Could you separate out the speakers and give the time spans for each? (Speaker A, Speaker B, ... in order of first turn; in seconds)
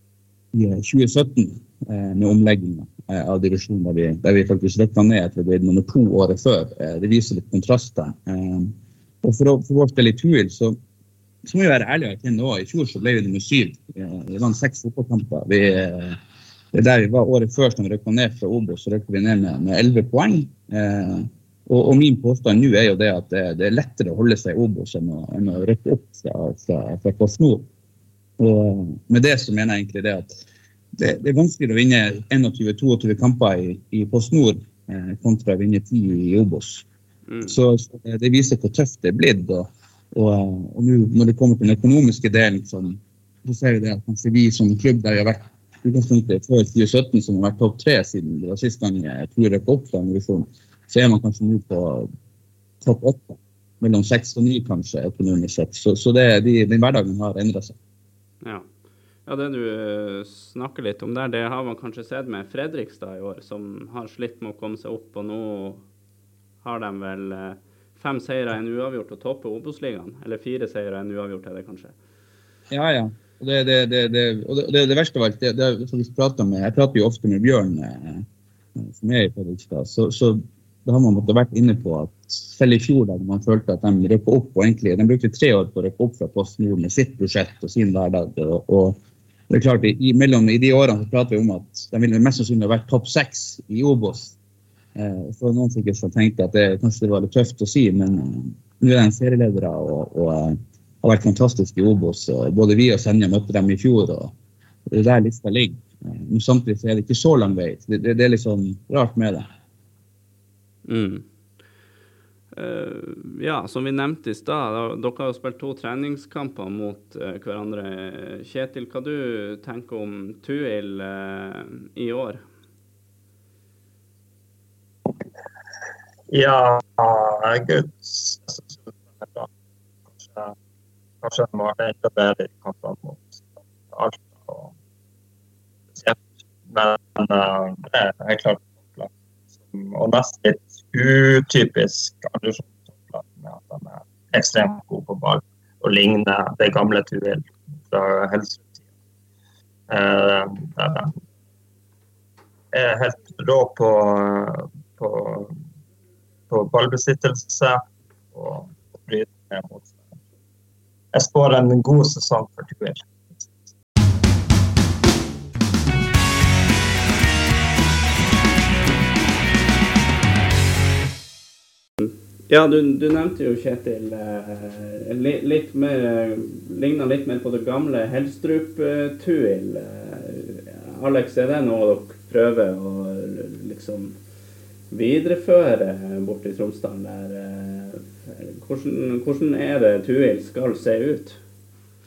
Speaker A: 0.5-10.8, 11.5-16.2, 16.7-27.7, 28.4-30.4, 30.9-36.9, 37.4-52.1, 52.8-57.8, 72.7-89.0, 89.5-94.3, 94.9-104.3, 104.9-109.5
Speaker B: 37.3-37.6, 58.4-58.7, 59.3-65.8, 66.6-71.9, 110.8-111.2, 112.5-122.4, 172.0-184.2, 184.9-191.4
Speaker C: 126.3-129.5, 130.2-130.6, 131.2-134.7, 135.9-139.1, 139.7-148.8, 149.9-151.1, 152.7-155.6, 156.5-157.8, 158.3-160.0, 161.1-163.1